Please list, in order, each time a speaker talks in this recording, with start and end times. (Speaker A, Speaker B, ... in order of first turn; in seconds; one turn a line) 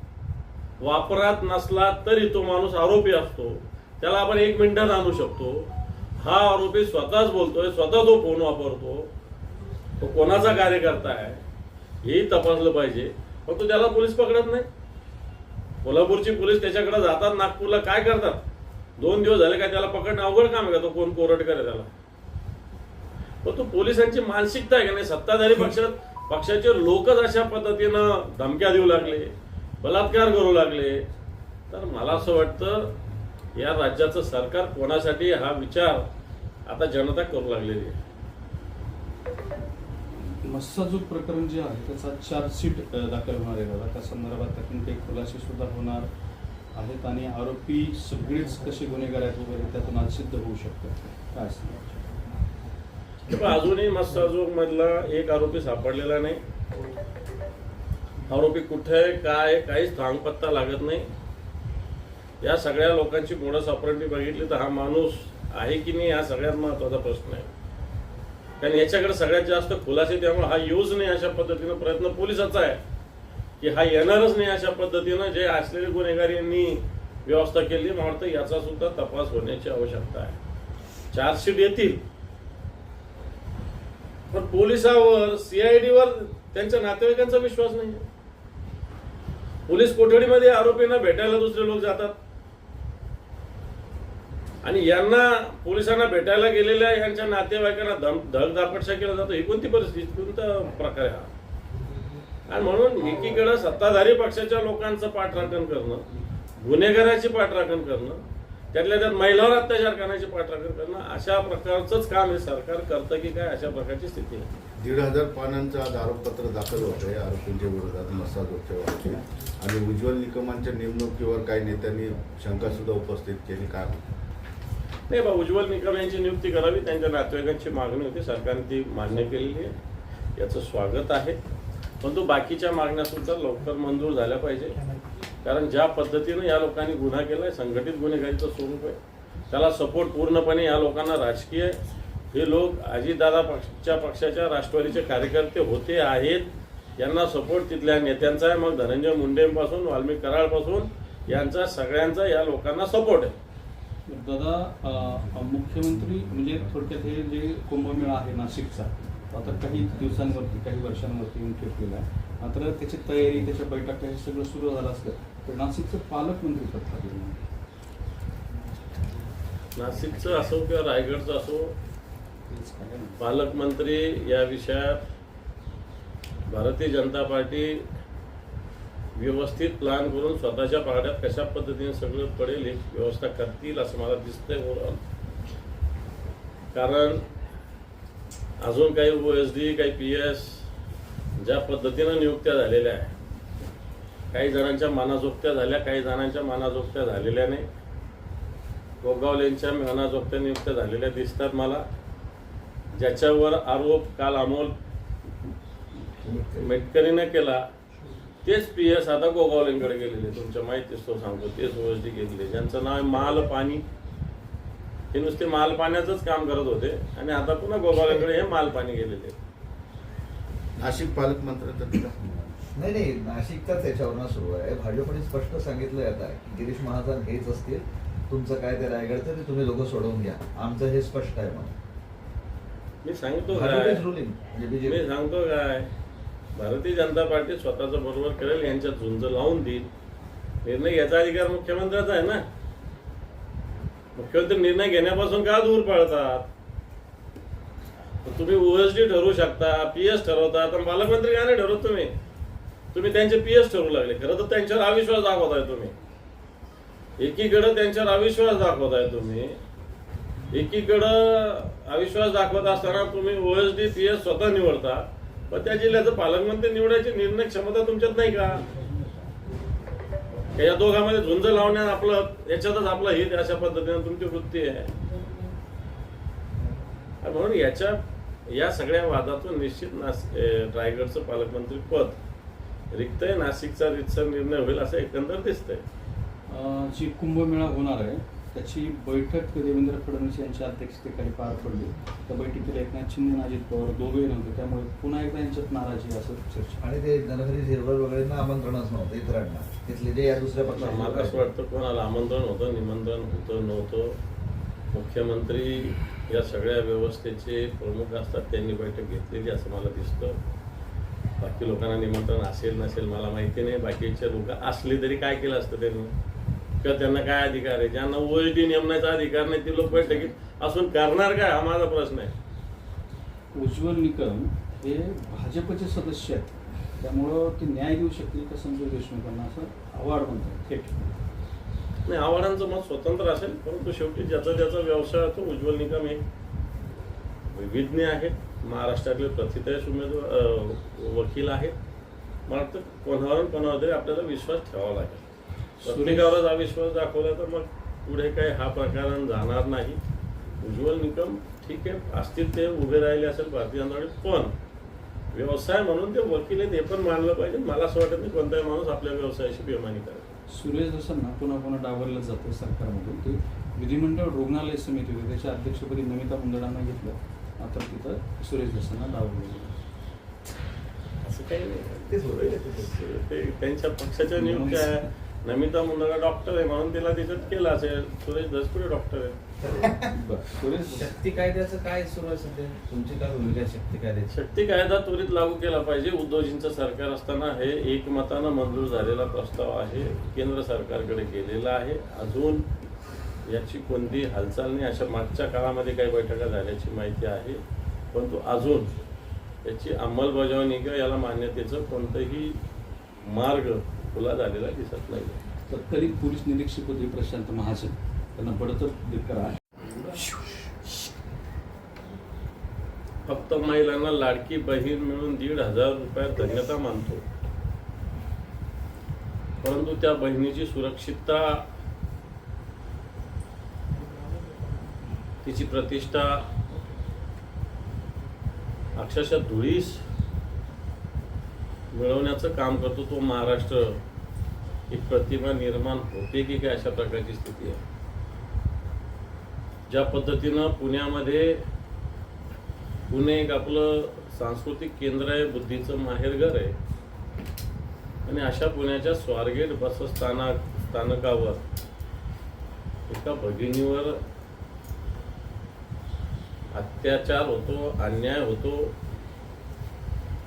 Speaker A: 0.8-9.1
Speaker A: 10.0-11.4
Speaker A: 12.0-14.7
Speaker A: 15.8-18.4
Speaker A: 19.0-21.9
Speaker A: 23.4-31.0
Speaker A: 31.7-32.9
Speaker A: 33.5-36.1
Speaker A: 36.7-38.0
Speaker B: 40.3-46.1
Speaker B: 46.7-52.0
Speaker A: 53.3-56.4
Speaker A: 58.3-61.1
Speaker A: 62.4-67.5
Speaker A: 68.6-72.8
Speaker A: 73.6-80.4
Speaker A: 81.1-82.0
Speaker A: 84.3-88.0
Speaker A: 89.7-92.1
Speaker A: 94.6-101.3
Speaker A: 102.5-106.0
Speaker A: 106.6-114.5
Speaker C: 114.8-124.0
Speaker A: 125.1-129.8
Speaker A: 130.4-131.4
Speaker A: 132.0-134.8
Speaker A: 135.4-139.0
Speaker A: 139.5-141.8
Speaker A: 142.3-153.3
Speaker B: 154.1-167.4
Speaker A: 169.7-171.7
Speaker B: 172.5-173.2
Speaker A: 173.2-175.0
Speaker A: 176.5-177.9
Speaker A: 179.1-185.0
Speaker A: 186.7-187.2
Speaker A: 188.6-190.7
Speaker A: 191.4-193.1
Speaker A: 194.3-197.7
Speaker A: 199.0-201.8
Speaker A: 202.9-204.7
Speaker D: 206.2-206.7
Speaker A: 206.5-207.6
Speaker A: 208.4-213.8
Speaker A: 215.1-219.4
Speaker C: 220.8-222.2
Speaker B: 222.2-222.5
Speaker D: 222.7-231.7
Speaker A: 233.0-234.1
Speaker D: 233.5-235.0
Speaker A: 234.8-235.9
Speaker A: 236.6-239.9
Speaker A: 240.6-242.4
Speaker A: 244.2-246.5
Speaker A: 248.2-252.1
Speaker A: 252.9-255.9
Speaker A: 257.2-259.6
Speaker A: 260.5-268.6
Speaker A: 270.5-274.9
Speaker A: 277.2-282.2
Speaker A: 282.9-285.8
Speaker B: 286.5-296.8
Speaker D: 296.8-301.4
Speaker A: 300.7-304.2
Speaker A: 304.9-310.4
Speaker A: 311.4-316.1
Speaker A: 316.8-322.3
Speaker B: 319.9-320.3
Speaker B: 323.5-331.1
Speaker A: 332.1-336.2
Speaker A: 337.5-341.7
Speaker A: 342.5-345.3
Speaker B: 345.8-346.4
Speaker A: 345.8-350.0
Speaker A: 350.6-354.5
Speaker A: 355.3-360.3
Speaker B: 360.5-369.8
Speaker A: 371.2-379.4
Speaker D: 372.1-372.9
Speaker B: 374.4-375.1
Speaker D: 379.6-380.1
Speaker B: 380.1-381.1
Speaker E: 381.1-384.1
Speaker A: 384.3-392.6
Speaker A: 393.4-397.6
Speaker A: 398.1-398.9
Speaker A: 399.6-402.6
Speaker A: 403.2-405.4
Speaker B: 405.7-409.6
Speaker A: 413.2-417.2
Speaker A: 419.6-421.6
Speaker A: 425.4-426.5
Speaker A: 428.9-430.0
Speaker A: 431.9-434.0
Speaker A: 434.9-437.8
Speaker A: 439.9-441.6
Speaker A: 443.1-446.8
Speaker A: 448.2-451.6
Speaker A: 453.1-454.2
Speaker A: 456.7-458.9